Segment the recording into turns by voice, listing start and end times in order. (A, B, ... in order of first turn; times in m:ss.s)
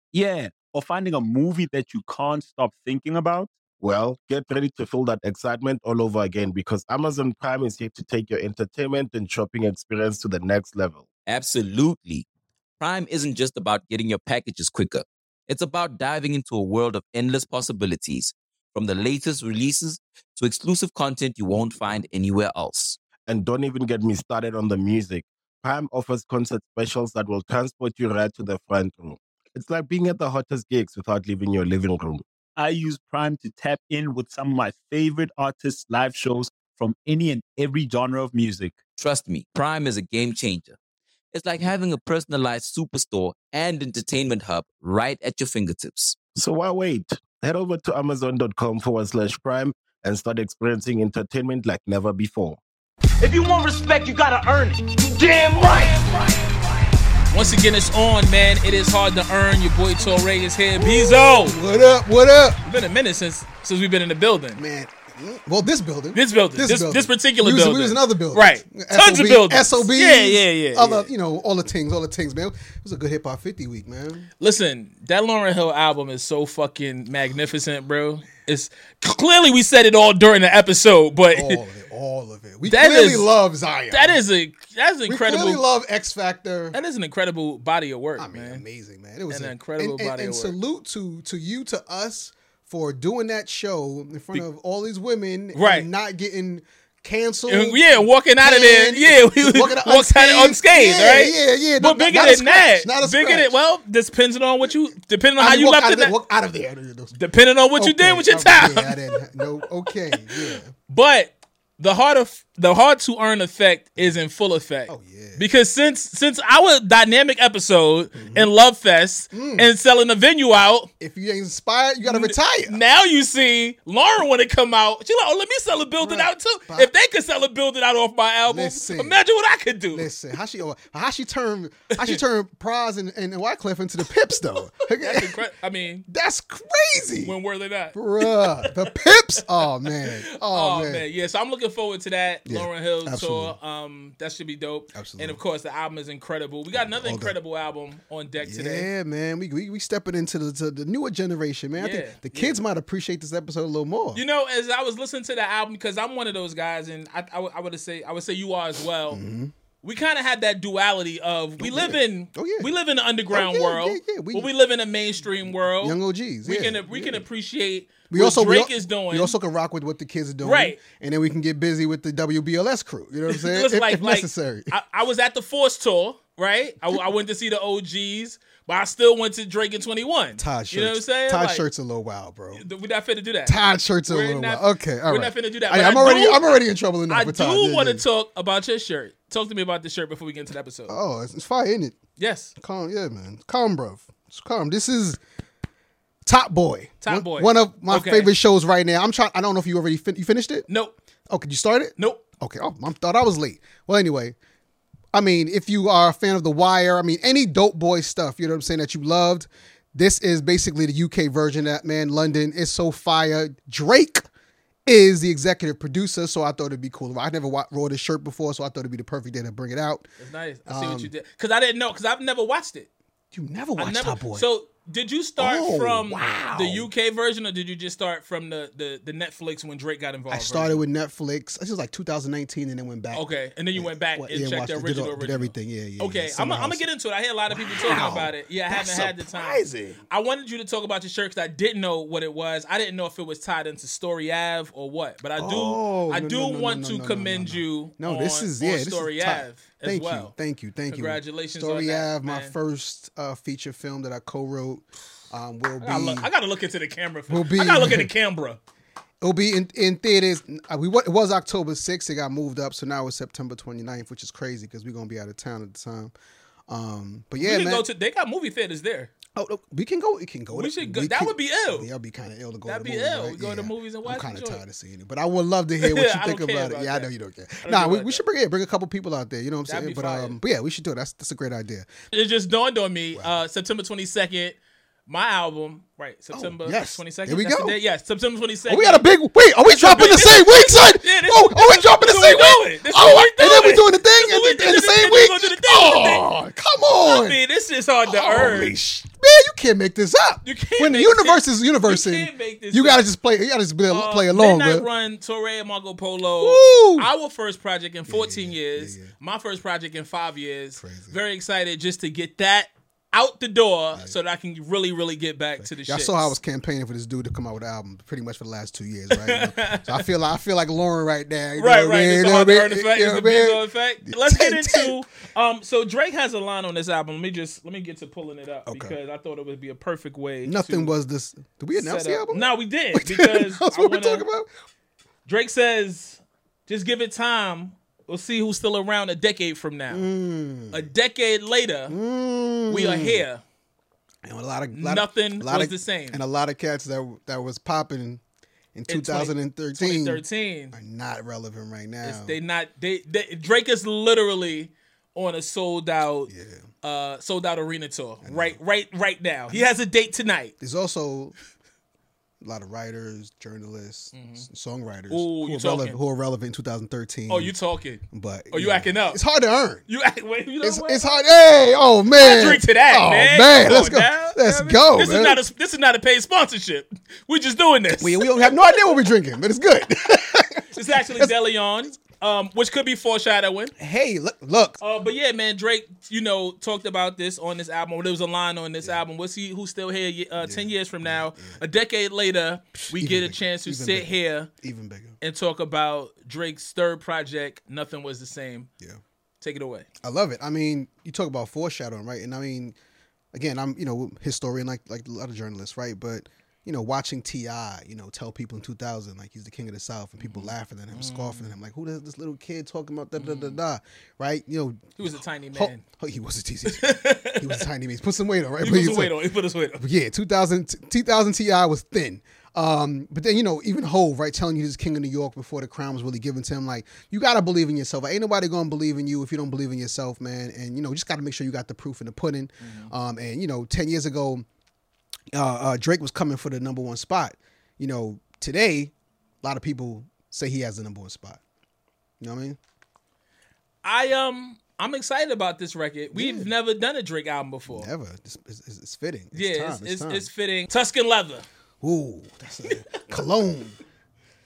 0:00.1-0:03.5 A
0:03.8-0:11.0 B
0:11.3-0:12.3 C
0:12.8-0:23.0 C
0:23.3-0:32.2 B
0:32.6-0:38.8 A
0:39.0-0:40.8 C
0:41.3-0:46.2 C
0:46.4-0:52.6 B
0:53.2-0:56.9 D
0:57.3-1:01.6 E
1:00.8-1:02.6 F
1:02.6-1:04.6 E
1:04.6-1:14.3 F
1:06.1-1:11.1 E
1:14.4-1:21.6 E
1:21.3-1:24.2 F
1:22.7-1:23.3 E
1:23.9-1:25.6 E
1:25.1-1:26.8 F
1:26.7-1:28.6 E
1:28.2-1:43.6 F
1:29.3-1:30.6 E
1:35.6-1:35.9 E
1:37.5-1:46.1 E
1:45.4-1:47.2 F
1:47.2-1:49.2 E
1:47.8-1:50.7 F
1:50.9-2:00.9 E
1:54.9-1:55.5 F
1:58.2-1:58.5 F
1:59.3-1:59.7 F
2:01.0-2:02.8 F
2:02.1-2:10.1 E
2:06.0-2:06.9 F
2:08.5-2:09.2 F
2:09.9-2:15.4 F
2:14.9-2:16.0 E
2:16.1-2:17.4 F
2:17.2-2:28.9 E
2:17.9-2:21.0 F
2:22.5-2:23.6 F
2:24.9-2:25.4 F
2:26.7-2:27.4 F
2:28.4-2:34.2 F
2:31.8-2:32.6 E
2:34.2-2:39.2 E
2:39.1-2:39.5 F
2:39.8-2:49.4 E
2:41.6-2:42.7 F
2:43.3-2:44.5 F
2:45.4-2:47.2 F
2:48.1-2:54.8 F
2:50.4-2:50.8 E
2:53.3-3:01.6 E
3:00.4-3:02.7 F
3:02.6-3:06.5 E
3:03.5-3:08.0 F
3:07.1-3:11.0 E
3:10.9-3:12.0 F
3:12.2-3:12.5 E
3:12.6-3:15.2 F
3:16.2-3:20.7 F
3:17.0-3:18.3 E
3:20.7-3:21.0 E
3:21.3-3:24.4 F
3:22.0-3:22.2 E
3:25.1-3:34.3 F
3:34.9-3:40.1 F
3:40.2-3:42.9 E
3:40.7-3:41.1 F
3:43.3-3:44.5 F
3:43.8-3:50.8 E
3:45.4-3:46.9 F
3:50.3-3:56.8 F
3:53.1-4:10.3 E
3:57.5-4:00.0 F
4:05.4-4:16.3 F
4:10.9-4:12.5 E
4:15.8-4:18.6 E
4:17.3-4:18.1 F
4:19.2-4:26.1 F
4:26.7-4:27.9 F
4:27.4-4:29.1 E
4:29.4-4:41.9 F
4:30.5-4:31.9 E
4:32.7-4:34.6 E
4:35.8-4:37.1 E
4:37.6-4:38.2 E
4:39.7-4:40.4 E
4:42.1-4:49.0 E
4:46.3-4:47.8 F
4:48.7-4:57.4 F
4:49.6-4:56.3 E
4:57.0-4:58.7 E
4:58.0-5:04.9 F
5:00.4-5:03.0 E
5:03.9-5:16.3 E
5:06.4-5:07.1 F
5:08.1-5:09.1 F
5:10.8-5:11.2 F
5:15.6-5:25.0 F
5:19.2-5:20.0 E
5:21.6-5:30.9 E
5:28.7-5:29.0 F
5:30.4-5:34.5 F
5:31.8-5:34.3 E
5:35.3-5:40.1 E
5:39.9-5:40.9 F
5:40.7-5:42.0 E
5:41.9-5:43.2 F
5:42.7-5:43.4 E
5:44.2-5:48.2 F
5:44.8-5:46.2 E
5:48.8-5:52.4 F
5:48.9-5:50.8 E
5:52.0-5:56.3 E
5:56.3-5:56.6 F
5:56.8-6:00.5 E
5:58.2-5:58.6 F
6:00.6-6:01.3 F
6:02.4-6:07.6 F
6:04.1-6:04.5 E
6:05.1-6:06.0 E
6:07.3-6:09.2 E
6:08.1-6:09.8 F
6:09.9-6:11.2 E
6:10.6-6:15.4 F
6:12.2-6:19.1 E
6:18.0-6:21.3 F
6:20.7-6:23.7 E
6:23.8-6:24.8 F
6:24.8-6:34.5 E
6:30.4-6:31.6 F
6:32.9-6:35.2 F
6:35.2-6:38.7 E
6:39.4-6:39.9 E
6:40.0-6:42.8 F
6:43.3-6:59.2 F
6:50.2-6:51.5 E
6:53.2-6:53.6 E
6:55.0-6:55.8 E
6:56.7-6:57.7 E
6:58.6-6:59.8 E
6:59.8-7:14.5 F
7:12.6-7:12.9 E
7:15.3-7:21.4 F
7:22.2-7:22.6 F
7:23.8-7:27.9 E
7:26.1-7:26.5 F
7:27.7-7:30.3 F
7:29.3-7:31.5 E
7:31.8-7:33.8 F
7:32.7-7:33.0 E